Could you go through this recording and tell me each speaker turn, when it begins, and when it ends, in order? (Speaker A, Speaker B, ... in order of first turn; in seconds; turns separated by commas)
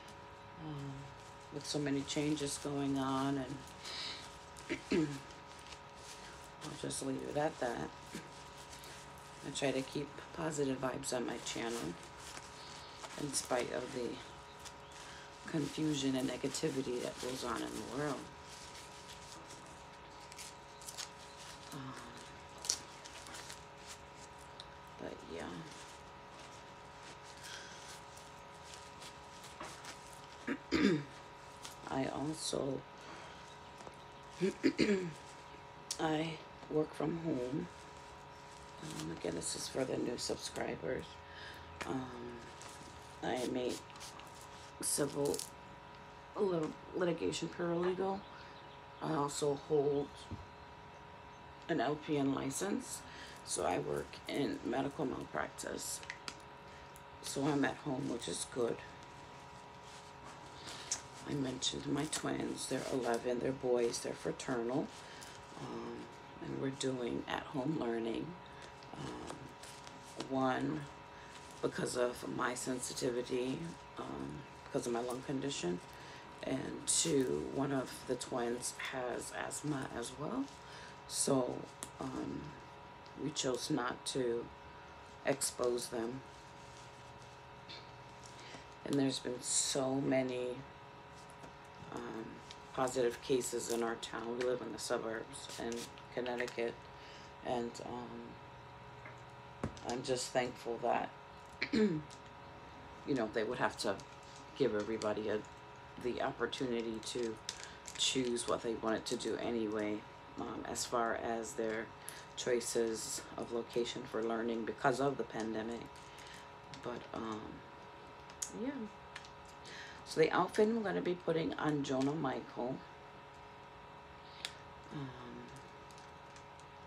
Speaker A: 0.6-5.2, Speaker A: 6.6-8.0, Speaker A: 9.4-12.0, Speaker A: 13.2-14.2, Speaker A: 15.4-18.3, Speaker A: 21.7-22.4, Speaker A: 25.0-25.7, Speaker A: 30.5-31.1, Speaker A: 31.9-32.9, Speaker A: 34.4-35.2, Speaker A: 36.0-37.7, Speaker A: 38.8-41.2, Speaker A: 41.8-42.5, Speaker A: 43.2-43.8, Speaker A: 44.8-45.4, Speaker A: 46.3-48.2, Speaker A: 49.0-50.3, Speaker A: 51.7-56.0, Speaker A: 57.2-58.8, Speaker A: 61.2-64.9, Speaker A: 65.5-68.4, Speaker A: 68.9-69.6, Speaker A: 70.2-70.9, Speaker A: 71.6-75.8, Speaker A: 76.4-80.5, Speaker A: 81.0-82.6, Speaker A: 83.2-84.5, Speaker A: 85.2-86.2, Speaker A: 88.8-90.7, Speaker A: 91.9-96.8, Speaker A: 97.4-98.4, Speaker A: 99.8-102.0, Speaker A: 103.0-104.0, Speaker A: 104.5-105.4, Speaker A: 106.0-107.4, Speaker A: 108.0-115.9, Speaker A: 116.8-117.7, Speaker A: 118.5-118.8, Speaker A: 120.0-122.8, Speaker A: 124.9-125.6